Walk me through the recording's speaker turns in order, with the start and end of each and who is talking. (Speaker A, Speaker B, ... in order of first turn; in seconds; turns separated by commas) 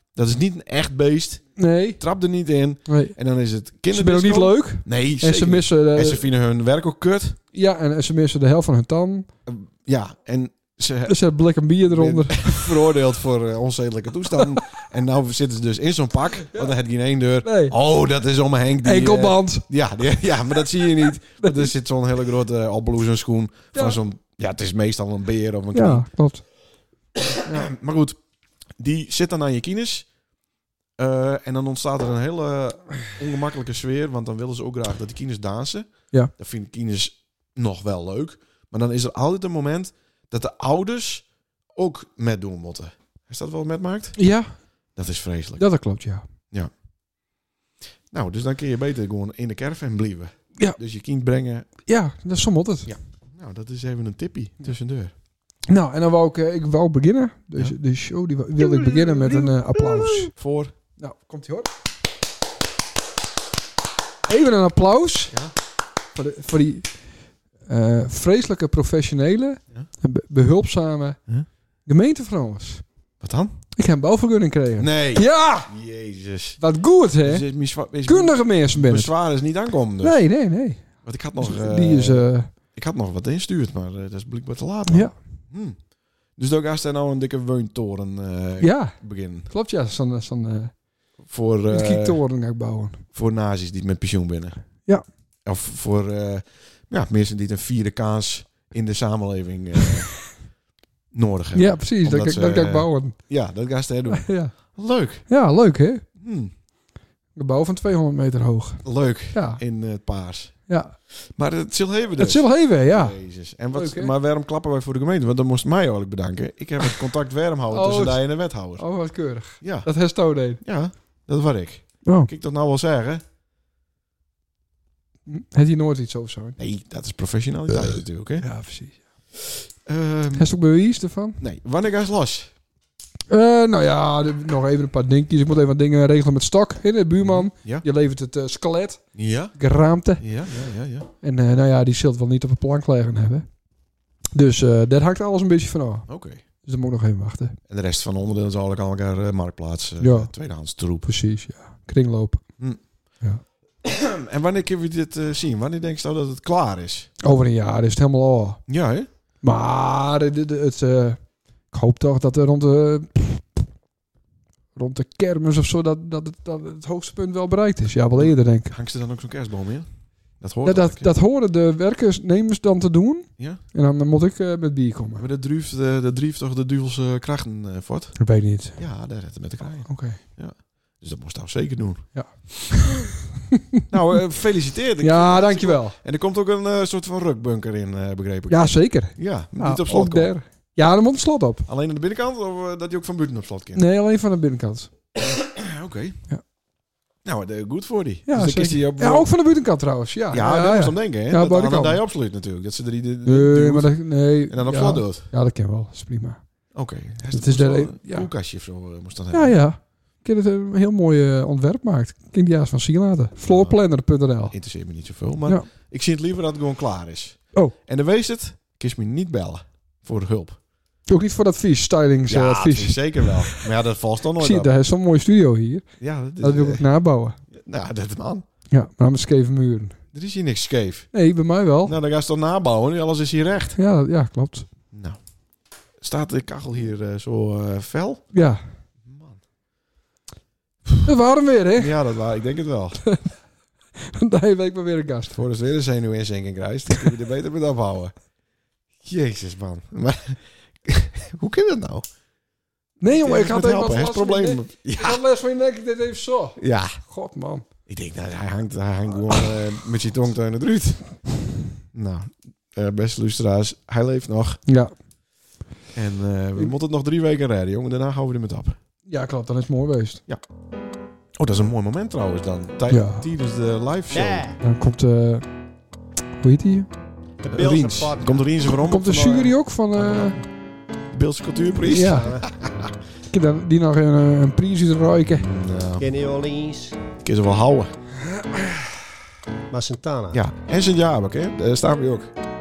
Speaker A: 0.1-7.4, Speaker B: 1.6-2.0, Speaker B: 2.9-3.1, Speaker B: 3.9-6.2, Speaker B: 7.5-9.3, Speaker A: 9.5-11.2, Speaker B: 11.1-12.7, Speaker A: 11.9-26.1, Speaker B: 17.4-17.8, Speaker B: 18.8-19.7, Speaker B: 21.4-21.7, Speaker B: 23.7-24.0, Speaker B: 25.7-26.5, Speaker A: 27.2-28.2, Speaker A: 28.8-30.1, Speaker A: 31.0-44.3, Speaker B: 44.2-44.8, Speaker A: 44.9-45.6, Speaker B: 45.6-46.3, Speaker A: 48.1-51.7, Speaker B: 51.9-52.9, Speaker A: 52.9-55.1, Speaker B: 55.7-60.3, Speaker A: 58.6-60.7, Speaker B: 61.0-61.7, Speaker B: 64.3-65.4, Speaker B: 66.2-66.9, Speaker B: 67.7-71.2, Speaker B: 71.8-72.8, Speaker A: 73.2-73.6, Speaker B: 73.8-75.7, Speaker A: 74.8-76.6, Speaker B: 76.6-79.1, Speaker A: 77.2-80.2, Speaker B: 80.0-82.5, Speaker A: 81.0-85.8, Speaker B: 84.9-85.2, Speaker A: 86.3-89.5, Speaker B: 88.6-89.0, Speaker B: 89.5-90.8, Speaker A: 91.2-92.2, Speaker B: 91.7-93.0, Speaker A: 93.1-94.6, Speaker A: 95.5-100.3, Speaker A: 101.1-105.3, Speaker B: 101.5-103.2, Speaker B: 104.1-104.8, Speaker B: 105.3-106.0, Speaker A: 106.2-106.5, Speaker B: 107.3-109.6, Speaker A: 108.8-118.9, Speaker B: 110.7-111.0, Speaker B: 112.2-113.2, Speaker B: 113.7-114.1, Speaker B: 117.7-120.6, Speaker A: 119.6-119.9, Speaker A: 120.6-123.2, Speaker B: 122.0-122.3, Speaker B: 125.3-126.6, Speaker A: 126.6-128.5, Speaker B: 128.4-129.1, Speaker A: 129.8-130.5, Speaker B: 130.3-131.4, Speaker A: 131.4-132.5, Speaker B: 133.3-140.2, Speaker A: 137.2-137.8, Speaker A: 139.1-139.6, Speaker A: 140.2-141.1, Speaker B: 141.2-143.5, Speaker B: 144.3-147.6, Speaker A: 146.1-146.4, Speaker A: 147.7-151.1, Speaker B: 150.0-150.3, Speaker B: 151.0-152.4, Speaker A: 153.8-157.2, Speaker B: 157.2-158.6, Speaker A: 158.7-159.1, Speaker B: 159.4-161.2, Speaker B: 161.7-163.7, Speaker B: 164.8-168.7, Speaker A: 168.2-171.1, Speaker B: 170.7-175.3, Speaker A: 175.2-182.9, Speaker B: 178.2-178.8, Speaker B: 179.9-180.2, Speaker B: 182.1-183.6, Speaker A: 183.9-190.3, Speaker B: 185.0-186.0, Speaker B: 188.5-191.7, Speaker A: 191.7-193.8, Speaker B: 193.8-194.9, Speaker A: 195.2-196.2, Speaker A: 197.2-199.3, Speaker B: 198.3-202.0, Speaker A: 200.3-205.3, Speaker B: 203.3-206.4, Speaker A: 206.7-209.6, Speaker B: 207.3-208.3, Speaker B: 209.3-214.6, Speaker A: 213.4-213.8, Speaker A: 214.5-220.6, Speaker B: 221.1-223.7, Speaker A: 222.3-224.7, Speaker B: 224.4-225.9, Speaker A: 226.0-226.9, Speaker B: 226.4-227.4, Speaker A: 227.5-228.5, Speaker B: 228.7-230.0, Speaker A: 230.1-231.1, Speaker B: 231.1-231.9, Speaker A: 231.8-233.8, Speaker B: 233.8-234.7, Speaker A: 234.9-235.2, Speaker A: 236.0-238.3, Speaker B: 238.3-238.6, Speaker A: 239.0-239.4, Speaker B: 241.0-242.0, Speaker A: 241.8-243.0, Speaker B: 243.0-243.3, Speaker B: 244.0-245.4, Speaker A: 245.3-248.1, Speaker A: 249.0-252.1, Speaker B: 253.0-257.6, Speaker A: 253.1-255.2, Speaker A: 256.6-257.0, Speaker A: 257.9-261.0, Speaker A: 261.9-264.6, Speaker B: 264.7-264.9, Speaker A: 265.9-268.8, Speaker B: 269.1-270.2, Speaker A: 271.4-274.5, Speaker B: 272.9-273.3, Speaker C: 274.1-274.6, Speaker B: 274.6-275.5, Speaker B: 276.4-276.9, Speaker C: 277.4-278.5, Speaker A: 277.5-280.4, Speaker B: 278.7-280.4, Speaker A: 281.1-282.9, Speaker B: 281.8-282.4, Speaker B: 283.3-285.5, Speaker A: 285.3-286.1, Speaker C: 286.0-287.0, Speaker A: 287.2-287.9, Speaker B: 288.2-288.8, Speaker C: 289.7-290.4, Speaker A: 290.3-292.3